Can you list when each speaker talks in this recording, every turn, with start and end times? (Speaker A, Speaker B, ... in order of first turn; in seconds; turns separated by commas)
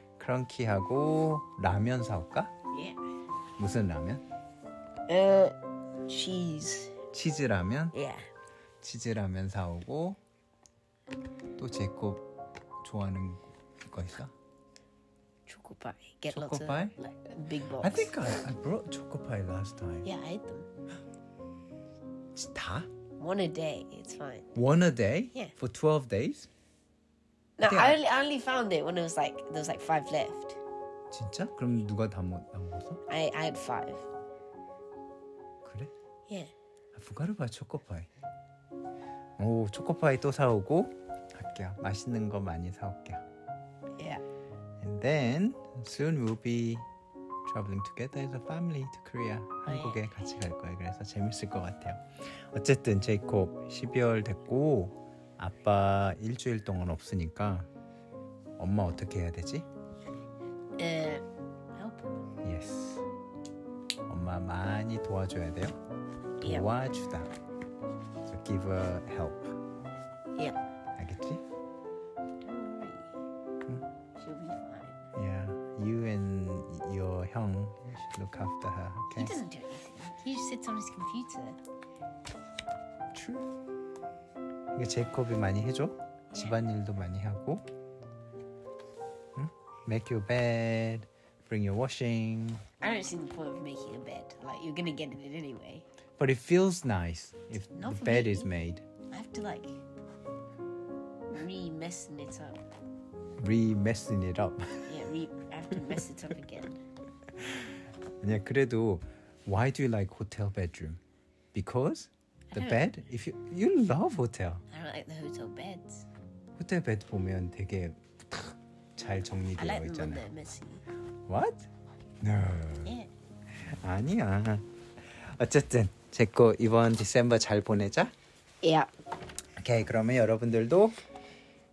Speaker A: 0.2-2.5, Speaker B: 2.7-3.0, Speaker A: 3.6-4.2, Speaker B: 5.1-5.6, Speaker B: 6.1-7.0, Speaker A: 7.1-8.0, Speaker B: 7.9-8.3, Speaker A: 8.8-10.2, Speaker A: 11.6-12.2, Speaker A: 12.8-14.3, Speaker B: 15.5-18.1, Speaker A: 16.3-17.0, Speaker A: 17.8-20.1, Speaker B: 20.0-20.7, Speaker A: 22.4-22.9, Speaker B: 23.2-24.5, Speaker A: 24.6-26.5, Speaker B: 27.6-30.6, Speaker A: 27.6-28.0, Speaker A: 31.1-33.0, Speaker B: 33.1-34.1, Speaker A: 35.6-35.9, Speaker A: 36.9-38.1, Speaker A: 39.4-43.2, Speaker B: 44.0-44.2, Speaker A: 44.8-46.9, Speaker A: 47.5-57.7, Speaker B: 49.7-50.2, Speaker A: 58.6-59.7, Speaker B: 60.8-62.2, Speaker A: 62.4-63.1, Speaker A: 64.1-65.8, Speaker B: 66.4-66.7, Speaker A: 66.4-67.3, Speaker A: 68.2-69.6, Speaker A: 71.0-71.4, Speaker B: 72.4-73.1, Speaker B: 74.2-75.0, Speaker A: 75.2-79.4, Speaker B: 79.1-81.6, Speaker A: 83.1-83.5, Speaker A: 84.7-87.7, Speaker B: 86.3-86.6, Speaker A: 89.3-92.7, Speaker B: 92.8-95.9, Speaker A: 96.2-98.8, Speaker B: 97.7-98.5, Speaker B: 99.1-99.8, Speaker B: 101.3-102.6, Speaker A: 103.4-105.0, Speaker B: 104.9-106.8, Speaker A: 108.2-111.0, Speaker A: 111.5-114.6, Speaker B: 112.5-112.9, Speaker B: 114.7-116.1, Speaker A: 116.6-120.2, Speaker B: 119.6-120.8, Speaker A: 121.3-121.7, Speaker A: 122.2-122.9, Speaker B: 122.8-123.1, Speaker A: 123.6-128.1, Speaker B: 128.6-128.9, Speaker A: 129.6-131.0